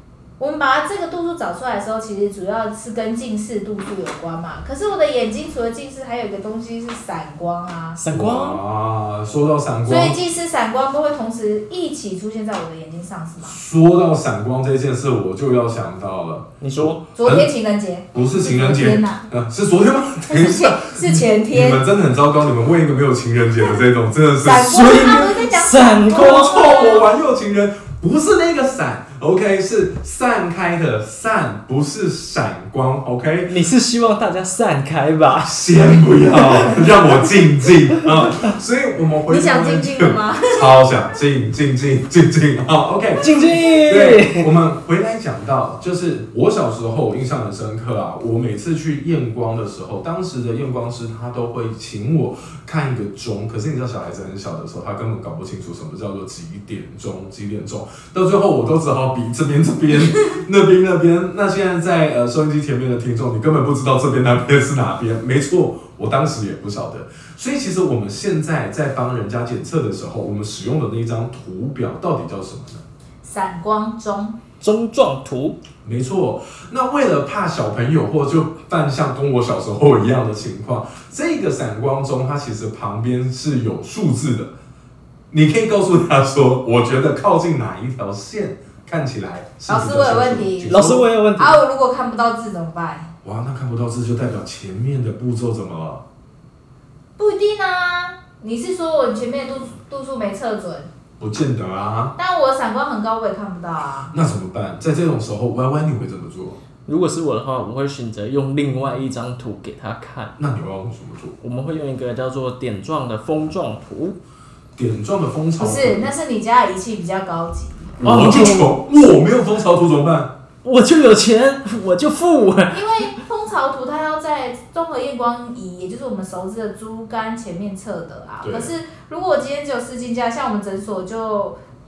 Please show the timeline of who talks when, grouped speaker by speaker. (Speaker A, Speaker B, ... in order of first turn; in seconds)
Speaker A: 0.4-8.0, 9.8-13.6, 17.1-19.3, 20.3-21.9, 24.4-27.1, 39.3-41.1, 73.2-74.4, 89.7-90.8, 91.4-93.1, 97.2-100.9, 102.2-104.1, 115.6-118.0, 122.7-131.6
Speaker B: 8.0-8.6, 16.6-17.0, 24.6-26.7, 33.5-35.5, 43.2-44.5, 74.6-75.6, 90.7-91.6, 106.9-110.3, 111.4-114.2, 118.0-118.8, 120.6-123.2
Speaker C: 8.1-10.2, 13.4-17.5, 18.1-25.1, 26.1-33.5, 35.4-72.8, 75.8-84.5, 85.3-91.1, 93.2-96.0, 101.2-102.2, 104.1-106.6, 110.4-111.4, 114.8-116.1, 118.0-120.3, 128.4-128.8